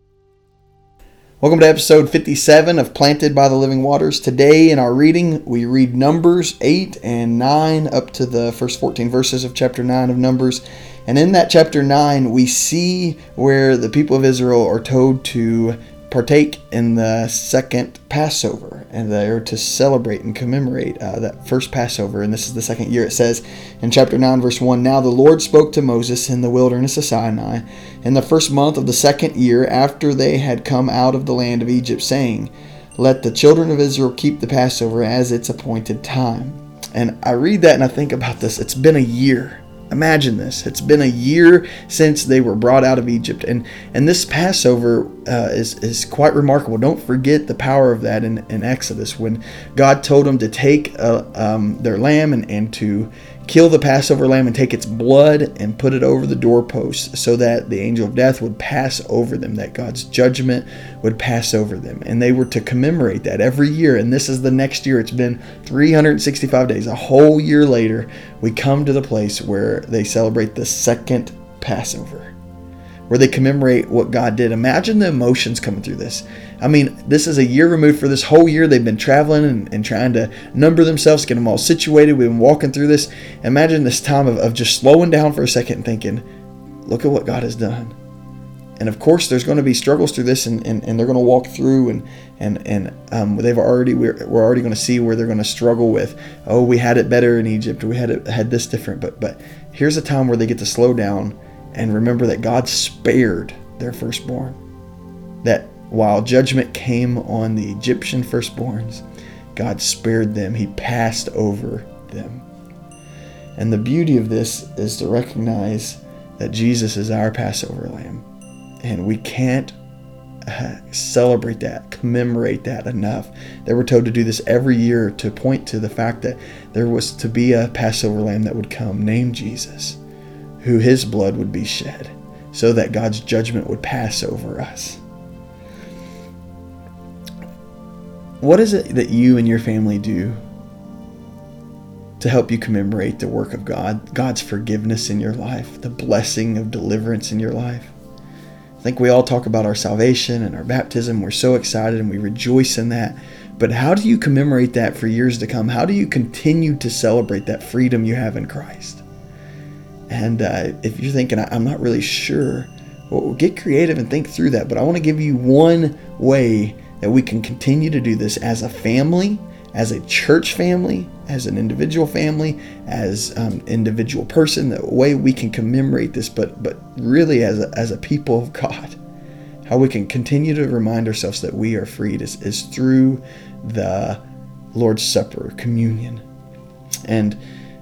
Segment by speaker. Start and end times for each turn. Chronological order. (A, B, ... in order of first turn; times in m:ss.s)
0:01.4-1:12.3 A
1:13.1-1:26.2 A
1:26.8-1:28.0 A
1:28.8-1:44.6 A
1:45.4-1:49.0 A
1:49.6-1:52.4 A
1:53.6-1:58.3 A
1:58.8-1:59.8 A
2:00.4-2:10.0 A
2:10.6-2:15.0 A
2:18.4-2:20.4 A
2:22.2-2:27.9 A
2:28.8-2:39.0 A
2:40.1-2:59.0 A
2:59.7-3:04.2 A
3:04.7-3:06.2 A
3:07.0-3:07.4 A